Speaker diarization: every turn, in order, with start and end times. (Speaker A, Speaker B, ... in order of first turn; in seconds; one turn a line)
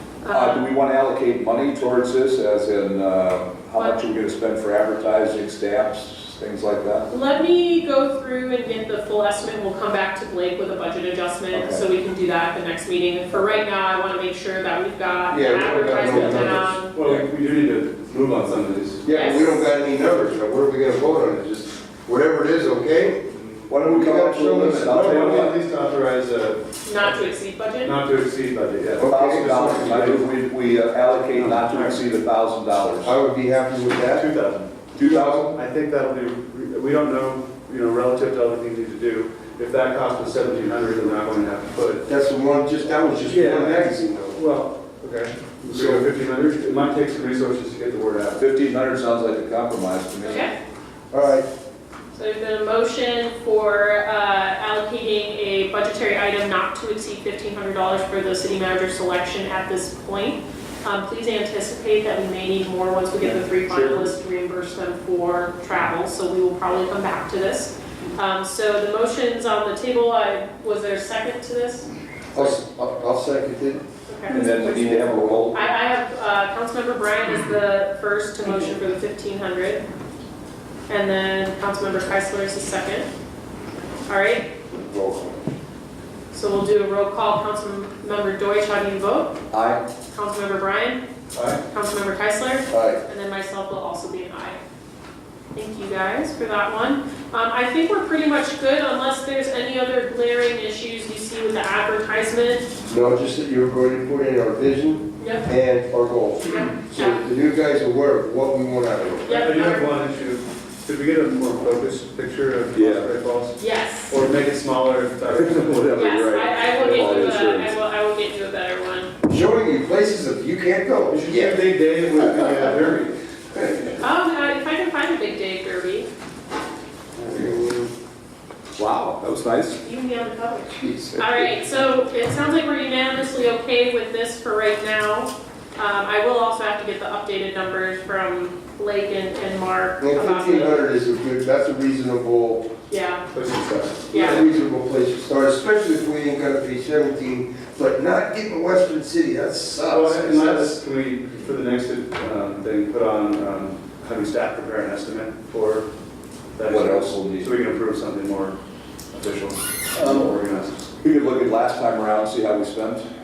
Speaker A: 0.2-0.7
Speaker B: 0.3-7.1
Speaker A: 7.1-16.9
Speaker B: 11.5-11.8
Speaker C: 15.3-16.8
Speaker D: 16.1-16.4
Speaker D: 16.9-19.1
Speaker C: 19.1-23.2
Speaker A: 19.1-19.6
Speaker D: 23.3-23.7
Speaker B: 23.7-25.6
Speaker C: 23.8-25.2
Speaker D: 24.8-27.2
Speaker A: 26.9-28.0
Speaker D: 27.8-30.3
Speaker B: 28.8-33.2
Speaker C: 29.0-29.9
Speaker D: 31.4-32.0
Speaker C: 33.0-34.3
Speaker D: 34.1-34.9
Speaker B: 35.0-35.6
Speaker C: 35.0-35.5
Speaker D: 35.5-42.1
Speaker C: 42.1-44.4
Speaker D: 43.3-48.4
Speaker C: 45.6-46.0
Speaker B: 48.4-50.5
Speaker A: 50.2-50.5
Speaker C: 51.1-51.5
Speaker A: 52.1-72.5
Speaker B: 63.2-64.1
Speaker C: 72.3-73.8
Speaker A: 74.1-74.9
Speaker B: 74.3-75.6
Speaker C: 74.5-75.4
Speaker A: 75.5-79.8
Speaker A: 80.9-83.1
Speaker A: 84.1-84.5
Speaker C: 84.7-85.4
Speaker A: 86.3-89.4
Speaker B: 89.5-89.8
Speaker A: 90.1-91.0
Speaker D: 91.3-91.6
Speaker A: 91.7-94.6
Speaker C: 92.7-93.0
Speaker A: 95.5-102.7
Speaker C: 102.9-109.5
Speaker A: 105.2-105.5
Speaker A: 106.5-107.2
Speaker A: 109.3-109.9
Speaker D: 109.3-116.1
Speaker B: 112.7-113.1
Speaker A: 113.6-114.2
Speaker B: 115.2-117.8
Speaker A: 116.0-119.1
Speaker D: 116.8-117.2
Speaker C: 119.3-122.9
Speaker D: 121.1-123.2
Speaker C: 123.5-124.0
Speaker A: 124.0-126.1
Speaker D: 127.2-127.5
Speaker C: 127.3-127.9
Speaker B: 127.3-127.6
Speaker B: 128.8-129.8
Speaker A: 129.8-140.8
Speaker C: 130.8-131.5
Speaker C: 140.0-142.7
Speaker A: 142.9-143.3
Speaker D: 143.3-144.2
Speaker A: 144.1-144.5
Speaker C: 144.1-150.8
Speaker D: 149.8-155.9
Speaker D: 156.6-158.6
Speaker B: 156.7-157.5
Speaker D: 159.1-160.9
Speaker B: 160.0-160.3
Speaker B: 161.0-163.1